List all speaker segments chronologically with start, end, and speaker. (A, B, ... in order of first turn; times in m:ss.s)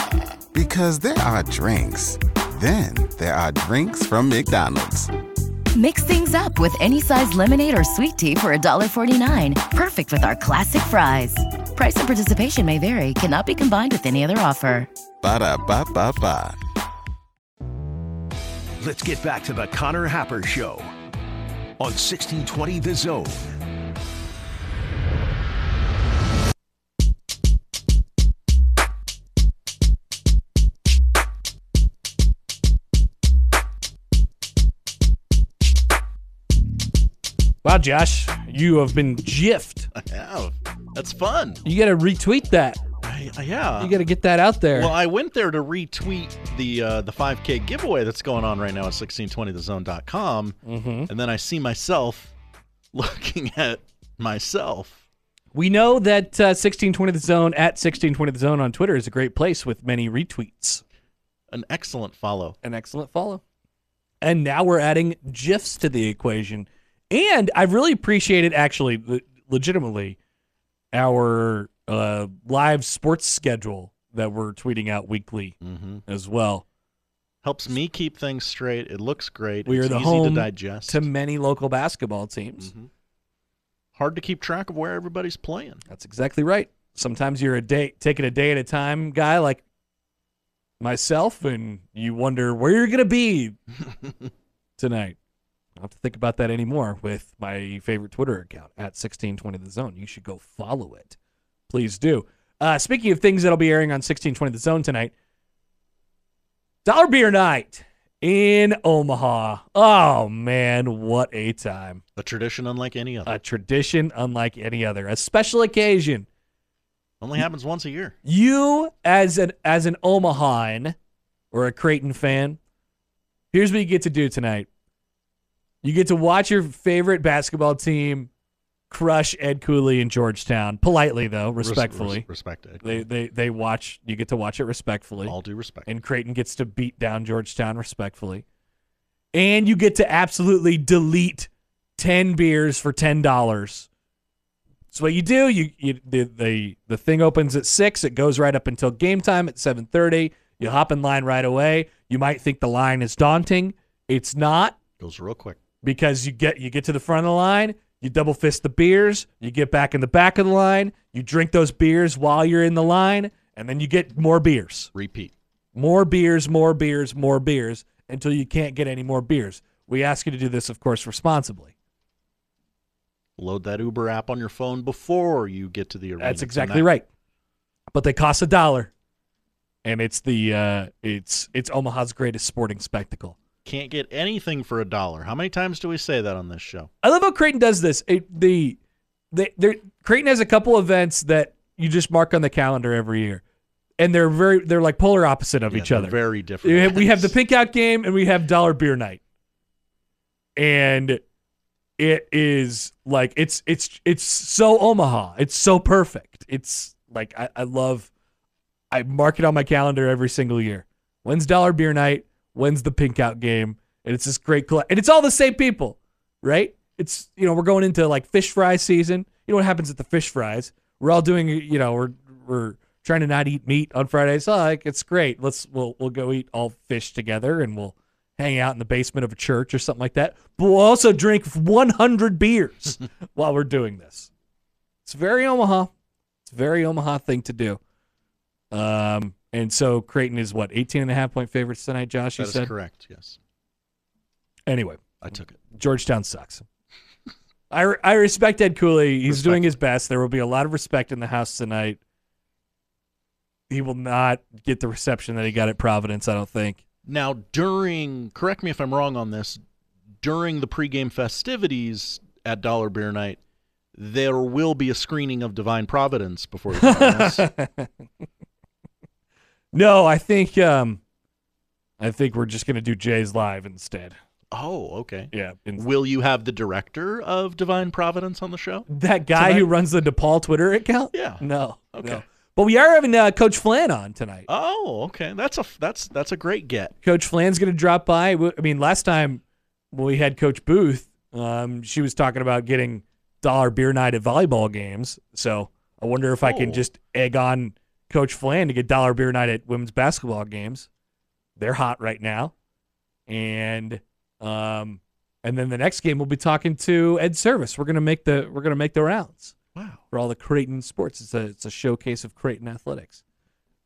0:00.5-0:05.1 A
0:05.7-0:14.9 B
0:15.2-0:16.6 A
0:18.8-0:20.9 C
0:21.8-0:23.4 C
0:37.6-0:39.9 D
0:40.0-0:41.6 E
0:41.6-0:42.8 D
0:43.0-0:43.9 E
0:43.8-0:44.9 D
0:44.7-0:50.6 E
0:50.6-0:51.1 D
0:51.1-0:52.3 E
0:52.9-0:55.0 E
0:55.5-1:00.8 D
1:01.5-1:02.6 E
1:02.6-1:03.4 D
1:04.2-1:10.2 D
1:10.9-1:16.6 D
1:15.6-1:16.0 E
1:17.4-1:21.1 E
1:19.6-1:22.7 D
1:22.6-1:22.9 E
1:23.9-1:25.8 E
1:25.9-1:29.6 D
1:30.8-1:33.6 D
1:34.8-1:35.2 D
1:35.8-1:41.2 D
1:41.7-1:45.1 D
1:46.8-1:52.0 D
1:52.2-1:53.3 E
1:53.2-1:56.2 D
1:57.2-1:58.1 E
1:58.2-2:00.9 D
2:01.5-2:02.6 D
2:03.5-2:04.7 D
2:05.8-2:08.3 D
2:08.9-2:12.2 D
2:11.6-2:13.0 E
2:12.8-2:18.4 D
2:15.2-2:15.9 E
2:19.3-2:23.9 D
2:24.9-2:34.8 D
2:35.0-2:35.6 E
2:35.8-2:44.9 D
2:44.9-2:45.3 E
2:45.7-2:51.7 D
2:53.4-2:56.9 E
2:56.2-2:57.0 D
2:57.9-2:58.9 D
2:59.8-3:03.4 D
3:03.6-3:06.9 E
3:07.0-3:08.8 D
3:09.3-3:13.4 D
3:14.0-3:19.2 D
3:15.7-3:17.4 E
3:20.6-3:21.2 D
3:22.0-3:28.1 D
3:28.9-3:54.3 D
3:55.0-3:55.9 D
3:56.4-3:57.8 D
3:58.7-4:02.7 D
4:02.4-4:03.4 E
4:04.7-4:05.0 D
4:05.2-4:05.6 E
4:05.7-4:06.6 D
4:07.7-4:12.0 D
4:09.3-4:09.8 E
4:13.7-4:16.8 D
4:17.0-4:19.6 E
4:20.2-4:23.4 E
4:23.9-4:27.5 E
4:26.7-4:27.9 D
4:29.7-4:31.0 D
4:32.0-4:34.2 D
4:34.5-4:39.7 E
4:35.3-4:35.8 D
4:38.9-4:44.5 D
4:41.1-4:41.4 E
4:41.9-4:42.2 E
4:44.5-4:46.9 E
4:47.0-4:49.4 D
4:49.9-5:00.9 D
4:56.4-4:56.8 E
5:01.6-5:02.5 D
5:03.3-5:09.5 D
5:09.7-5:10.0 E
5:10.1-5:13.2 D